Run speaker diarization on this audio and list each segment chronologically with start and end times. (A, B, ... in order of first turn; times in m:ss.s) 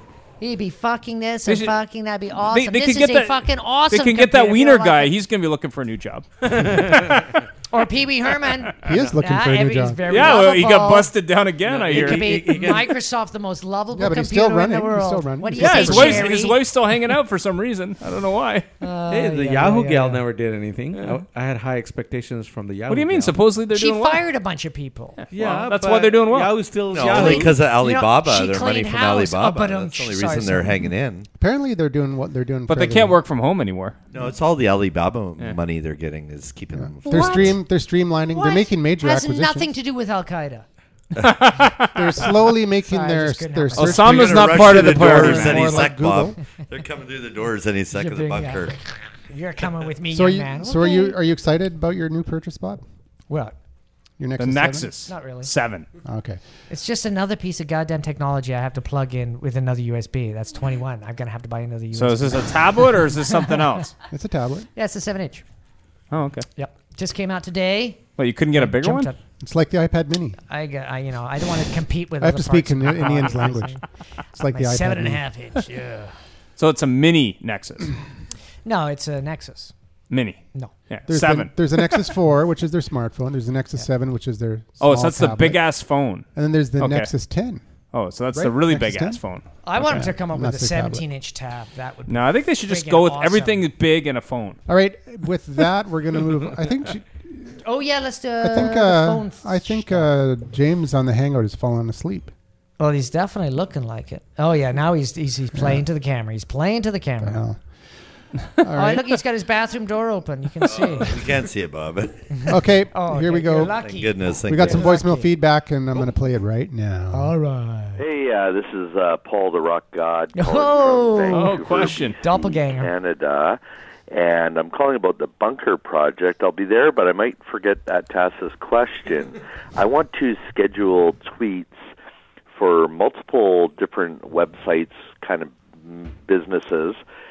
0:00.4-0:05.1 A
0:01.5-0:01.8 B
0:02.4-0:07.3 B
0:06.6-0:07.2 C
0:07.7-0:11.1 A
0:08.8-0:10.2 D
0:10.1-0:12.5 B
0:11.7-0:12.9 C
0:11.9-0:16.6 A
0:13.9-0:16.3 D
0:15.6-0:18.7 B
0:18.8-0:20.2 A
0:19.1-0:23.4 C
0:22.9-0:24.2 B
0:23.7-0:25.2 A
0:25.2-0:26.6 B
0:25.3-0:27.6 C
0:26.9-0:31.3 E
0:27.1-0:30.8 A
0:31.4-0:33.2 D
0:32.7-0:34.0 B
0:34.1-0:37.6 E
0:36.8-0:39.7 D
0:37.1-0:37.5 A
0:38.3-0:40.6 A
0:41.2-0:42.3 B
0:41.9-0:46.4 D
0:42.8-0:44.2 A
0:43.8-0:45.9 B
0:44.0-0:48.8 E
0:47.9-0:51.2 A
0:50.1-0:52.8 D
0:53.3-0:53.6 A
0:54.2-0:54.9 D
0:54.4-0:55.9 B
0:55.1-0:55.5 A
0:56.0-0:56.4 D
0:56.7-1:03.6 A
1:02.0-1:03.9 B
1:04.1-1:04.7 D
1:04.8-1:05.4 A
1:06.1-1:06.5 B
1:06.6-1:08.0 A
1:08.2-1:09.1 B
1:08.6-1:09.2 A
1:09.4-1:10.4 D
1:10.5-1:13.8 A
1:12.2-1:13.8 D
1:14.3-1:15.2 D
1:14.4-1:16.2 A
1:16.6-1:17.9 B
1:18.6-1:19.7 A
1:20.1-1:22.1 B
1:21.1-1:25.7 D
1:24.8-1:26.3 B
1:26.4-1:27.6 D
1:26.8-1:27.1 B
1:27.9-1:29.4 B
1:28.3-1:29.2 D
1:29.6-1:33.6 A
1:29.8-1:31.0 D
1:32.1-1:34.6 B
1:34.7-1:37.6 D
1:37.6-1:40.1 A
1:38.4-1:42.3 D
1:42.8-1:47.4 A
1:45.6-1:45.8 D
1:47.2-1:47.6 D
1:48.6-1:49.1 D
1:48.8-1:51.2 A
1:50.7-1:52.3 E
1:52.3-1:55.3 A
1:52.5-1:53.8 D
1:53.8-1:54.9 E
1:54.4-1:57.3 D
1:57.1-1:58.0 A
1:58.0-2:11.8 F
2:00.3-2:02.9 A
2:01.3-2:02.2 B
2:12.6-2:17.0 F